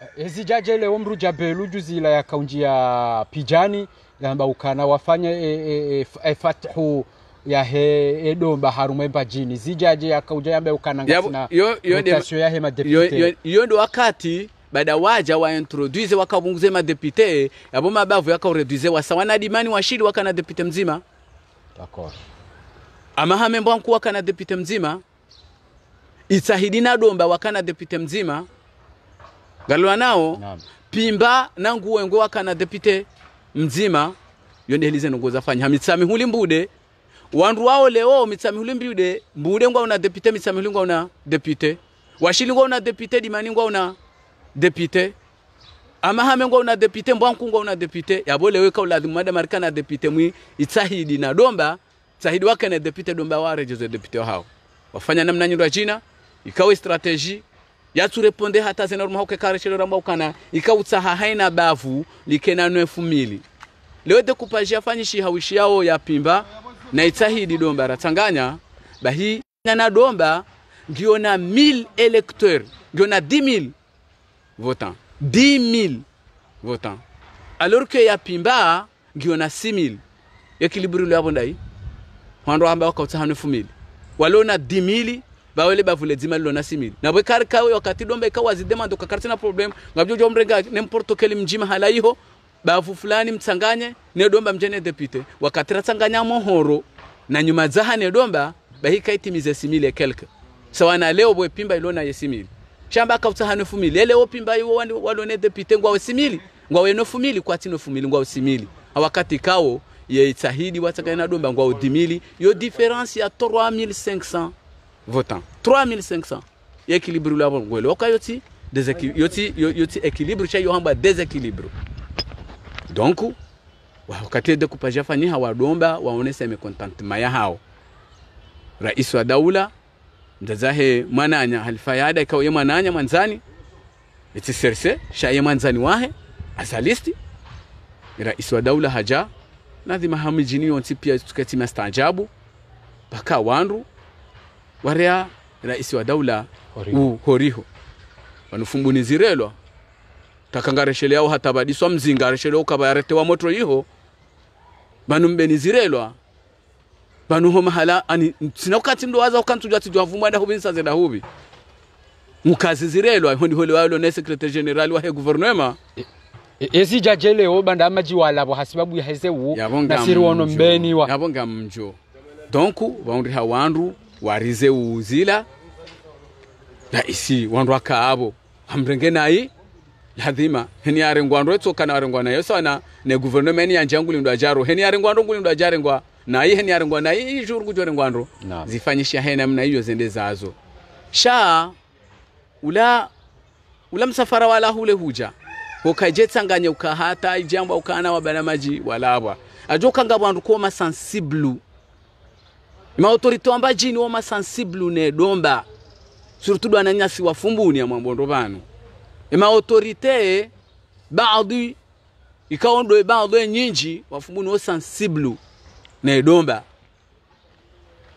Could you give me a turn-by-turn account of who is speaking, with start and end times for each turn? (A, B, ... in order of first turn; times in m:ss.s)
0:00.2-0:13.3 A
0:11.1-0:12.3 B
0:12.8-0:21.0 B
0:21.8-0:22.2 A
0:23.2-0:25.0 B
0:26.3-0:28.5 B
0:29.7-0:34.1 B
0:34.7-0:36.7 B
0:37.3-0:44.0 B
0:44.5-0:45.1 B
0:46.0-1:03.4 B
1:04.0-1:13.7 B
1:14.6-1:16.0 B
1:16.6-1:17.0 B
1:17.6-1:20.0 B
1:20.6-1:21.6 B
1:22.4-1:54.5 B
1:55.1-2:01.7 B
2:02.9-2:03.4 B
2:04.1-2:07.6 B
2:08.8-2:09.7 B
2:10.4-2:13.4 B
2:14.3-2:17.2 B
2:18.2-2:19.3 B
2:19.8-2:22.3 B
2:23.1-2:23.8 B
2:24.8-2:27.7 B
2:26.7-2:27.0 A
2:28.5-2:29.6 B
2:30.5-2:33.8 B
2:35.1-2:36.2 B
2:37.3-2:41.2 B
2:42.4-2:45.8 B
2:46.6-2:51.1 A
2:49.5-2:52.0 B
2:52.5-2:55.4 B
2:56.9-2:59.5 B
3:00.2-3:10.6 B
3:08.4-3:08.7 A
3:11.1-3:11.8 B
3:12.6-3:13.1 B
3:13.9-3:21.6 B
3:23.0-3:25.6 B
3:26.4-3:28.6 B
3:29.3-3:30.5 B
3:31.1-3:31.8 B
3:32.5-3:35.4 B
3:36.0-3:36.6 B